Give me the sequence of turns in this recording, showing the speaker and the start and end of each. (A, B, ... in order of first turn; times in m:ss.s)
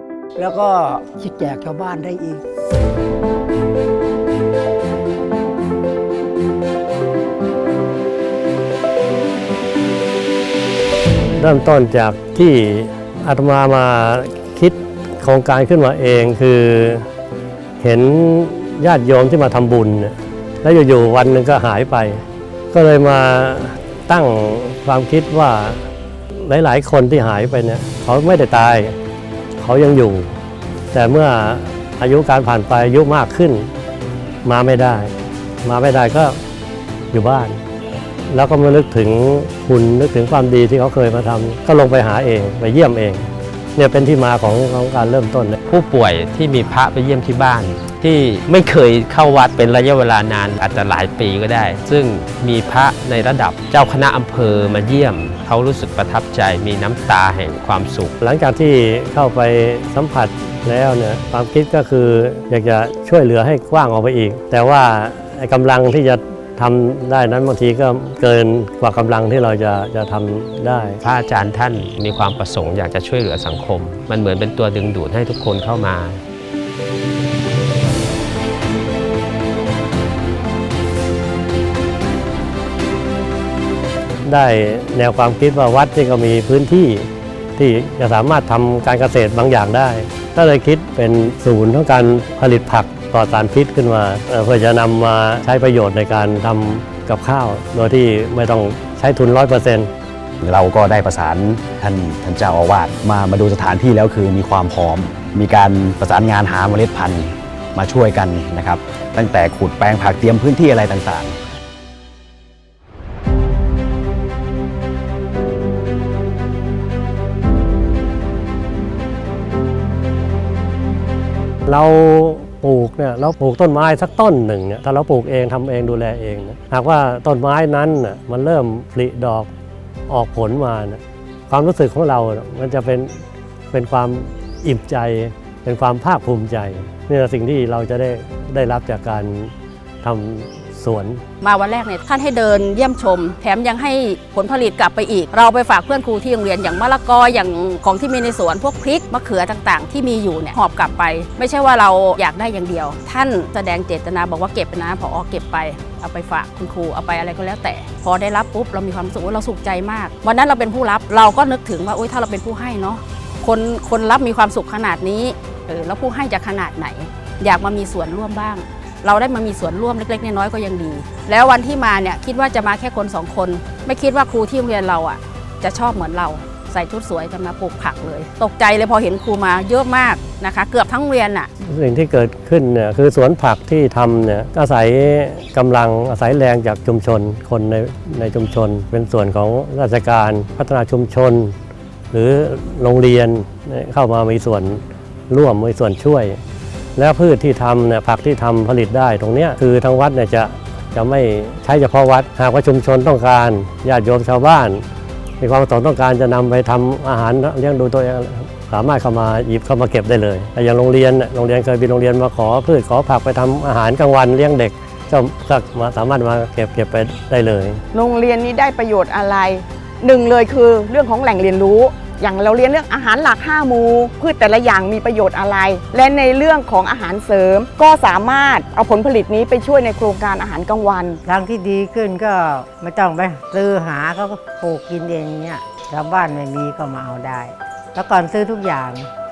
0:00.4-0:02.4 A
0:11.4-0:17.0 B
0:17.8-0:29.0 B
0:29.6-0:30.3 B
0:30.9-0:33.7 B
0:34.4-0:36.4 B
0:37.1-0:37.6 B
0:38.3-0:45.6 B
0:45.6-0:58.1 C
0:58.2-1:11.0 B
1:11.0-1:16.2 C
1:24.2-1:39.9 B
1:40.4-1:51.4 D
2:01.7-2:09.5 B
2:10.1-2:13.2 B
2:13.7-2:21.2 B
2:21.4-3:01.5 E
3:01.6-3:11.5 B
3:12.1-3:16.4 B
3:17.0-3:24.8 B
3:25.4-3:37.8 B
3:37.9-3:51.2 F
3:51.2-3:59.1 G